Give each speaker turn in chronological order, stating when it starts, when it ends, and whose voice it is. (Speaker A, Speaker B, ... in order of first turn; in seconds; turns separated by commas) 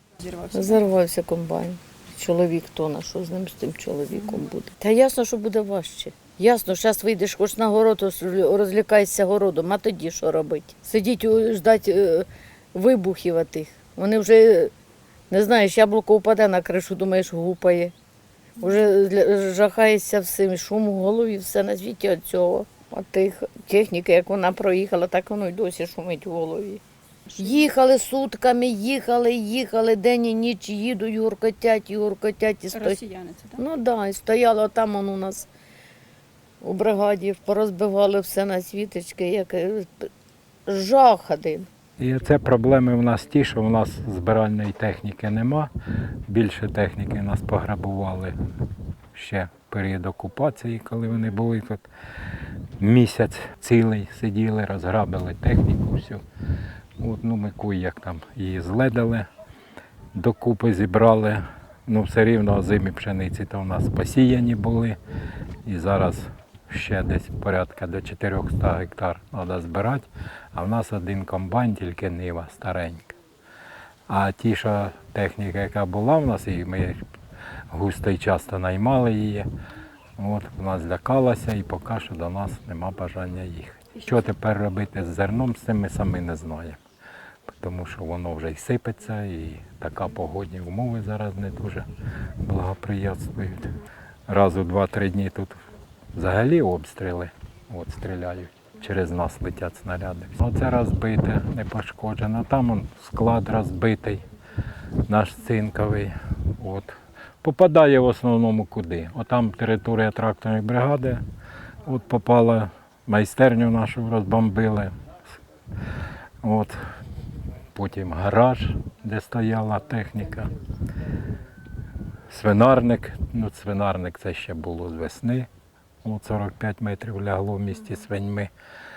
Speaker A: 0.2-0.8, Speaker B: 0.5-14.7, Speaker B: 15.3-17.9, Speaker B: 18.6-26.8, Speaker A: 27.3-27.6, Speaker B: 27.4-33.0, Speaker A: 32.7-33.7, Speaker B: 33.6-35.5, Speaker B: 36.6-40.1, Speaker B: 40.7-41.7, Speaker C: 42.0-45.7, Speaker C: 46.3-48.3, Speaker C: 49.1-51.9, Speaker C: 52.8-56.2, Speaker C: 57.0-59.3, Speaker C: 60.1-65.0, Speaker C: 65.6-73.1, Speaker C: 74.1-77.0, Speaker C: 77.7-79.5, Speaker C: 80.2-86.8, Speaker C: 87.6-91.8, Speaker C: 92.4-93.7, Speaker C: 94.3-95.5, Speaker C: 96.1-104.2, Speaker C: 105.1-111.2, Speaker C: 111.8-114.9, Speaker C: 116.4-116.8, Speaker C: 117.7-120.5, Speaker C: 122.3-125.5, Speaker C: 126.0-128.5